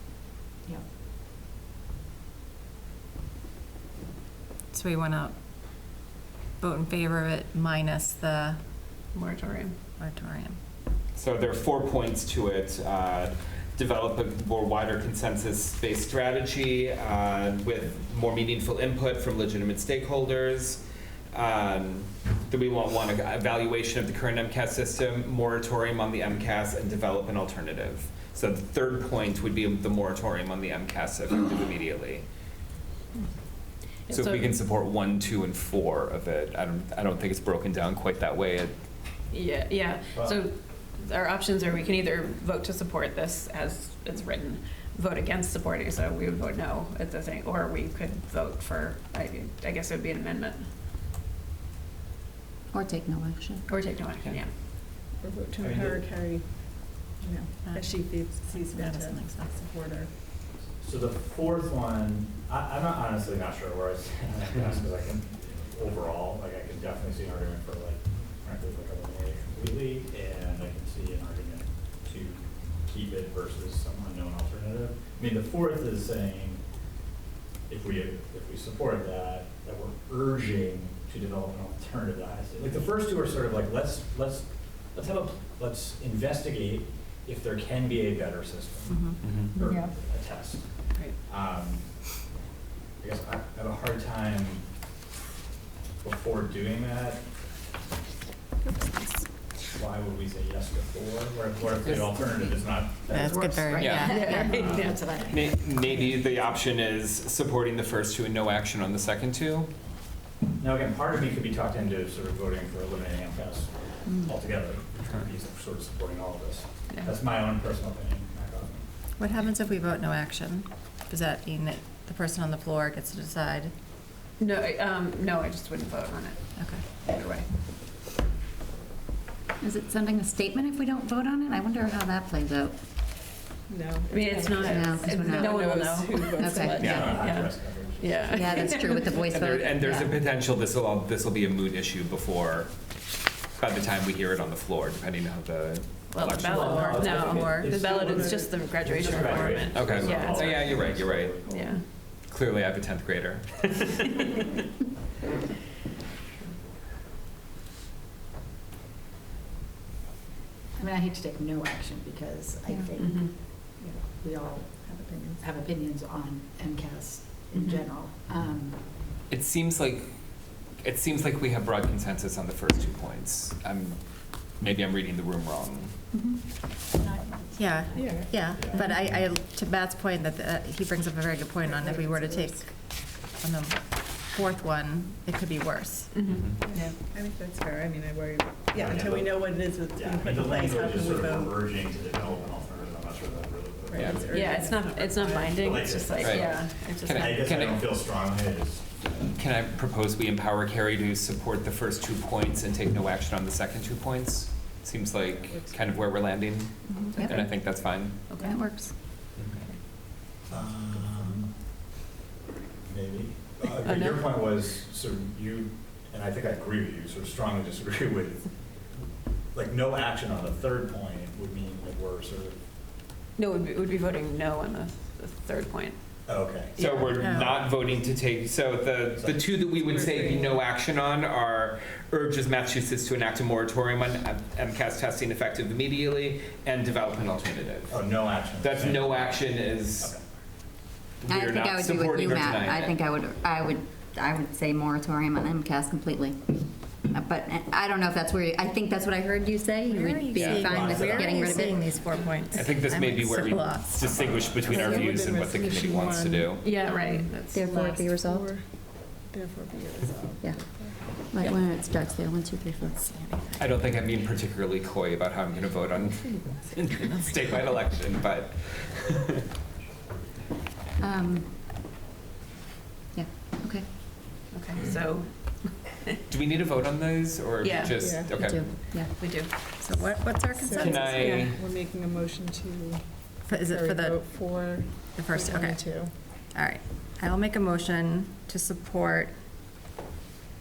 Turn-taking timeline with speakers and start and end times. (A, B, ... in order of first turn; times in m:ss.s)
0:04.7-0:05.3 A
0:06.6-0:08.6 A
0:09.1-0:09.7 B
0:10.0-0:10.6 A
0:11.1-0:20.8 C
0:21.3-0:32.2 C
0:34.1-0:34.5 B
0:34.1-0:38.7 C
0:39.3-0:50.7 B
0:40.1-0:40.4 D
0:52.7-0:53.6 E
0:52.7-0:53.6 F
0:53.7-0:54.5 B
0:55.1-1:00.1 G
0:55.6-0:56.0 D
0:57.6-0:59.7 A
1:00.8-1:16.6 D
1:17.7-1:32.1 D
1:29.2-1:29.5 C
1:33.0-1:34.6 D
1:36.0-1:37.2 D
1:39.7-1:45.1 D
1:41.8-1:42.1 C
1:43.1-1:44.9 A
1:43.8-1:44.2 C
1:44.0-1:46.2 E
1:44.0-1:45.1 B
1:45.2-1:49.7 C
1:50.6-1:58.8 D
1:59.2-2:03.7 A
2:04.4-2:07.5 B
2:06.6-2:06.8 A
2:09.6-2:12.7 E
2:09.6-2:12.7 F
2:13.7-2:17.2 G
2:14.1-2:19.4 B
2:14.6-2:15.4 E
2:14.6-2:15.5 F
2:16.4-2:16.8 F
2:16.8-2:18.8 D
2:16.8-2:17.1 C
2:18.3-2:20.1 F
2:18.6-2:20.1 E
2:19.0-2:22.7 C
2:23.6-2:26.6 C
2:26.1-2:30.7 B
2:26.2-2:31.7 D
2:27.4-2:29.9 G
2:29.7-2:31.4 C
2:31.4-2:31.8 B
2:32.2-2:34.1 C
2:40.7-2:43.5 E
2:43.0-2:43.8 B
2:43.8-2:45.4 G
2:44.2-2:44.7 E
2:45.4-2:49.0 E
2:47.5-2:47.8 B
2:49.3-2:56.0 C
2:56.1-2:56.4 E
2:57.5-3:06.2 A
2:57.9-2:58.3 G
2:58.5-2:58.9 D
3:01.7-3:02.7 G
3:06.1-3:07.0 B
3:06.2-3:06.6 C
3:06.6-3:11.7 G
3:08.7-3:14.7 D
3:13.9-3:15.8 G
3:13.9-3:14.3 C
3:14.3-3:17.6 B
3:15.5-3:19.3 D
3:16.2-3:17.9 C
3:19.4-3:28.3 C
3:25.4-3:25.9 G
3:26.9-3:27.3 F
3:26.9-3:27.3 E
3:28.3-3:28.6 B
3:28.4-3:28.9 F
3:28.5-3:28.8 E
3:28.5-3:28.8 G
3:29.4-3:29.6 C
3:30.5-3:31.5 D
3:32.8-3:38.5 D
3:33.8-3:34.2 B
3:39.5-3:42.6 D
3:43.4-3:46.0 B
3:46.2-3:47.8 D
3:46.8-4:00.1 C
3:47.0-3:47.6 A
3:49.2-3:49.5 D
3:49.8-3:50.6 G
3:57.9-3:59.4 D
4:01.2-4:03.0 C
4:01.3-4:06.3 F
4:02.0-4:02.5 E
4:03.1-4:06.2 E
4:07.1-4:11.8 F
4:09.7-4:10.1 E
4:09.9-4:14.0 A
4:09.9-4:10.2 G
4:10.3-4:10.7 C
4:10.6-4:11.5 E
4:10.6-4:11.5 D
4:12.5-4:16.8 C
4:14.0-4:15.3 D
4:14.6-4:21.0 G
4:14.7-4:15.0 A
4:16.6-4:17.6 B
4:17.5-4:18.5 F
4:17.5-4:18.2 E
4:21.2-4:23.0 F
4:21.4-4:22.9 E
4:23.0-4:23.8 A
4:23.6-4:29.4 C
4:26.8-4:27.7 A
4:31.0-4:31.3 E
4:31.1-4:31.4 F
4:33.1-4:33.8 F
4:34.5-4:36.1 B
4:36.3-4:39.0 C
4:37.6-4:38.0 B
4:38.0-4:38.3 G
4:38.4-4:39.0 E
4:38.4-4:39.3 F
4:39.0-4:39.5 B
4:39.7-4:41.1 A
4:40.2-4:46.1 G
4:40.8-4:41.6 C
4:41.1-4:41.5 B
4:43.4-4:49.3 A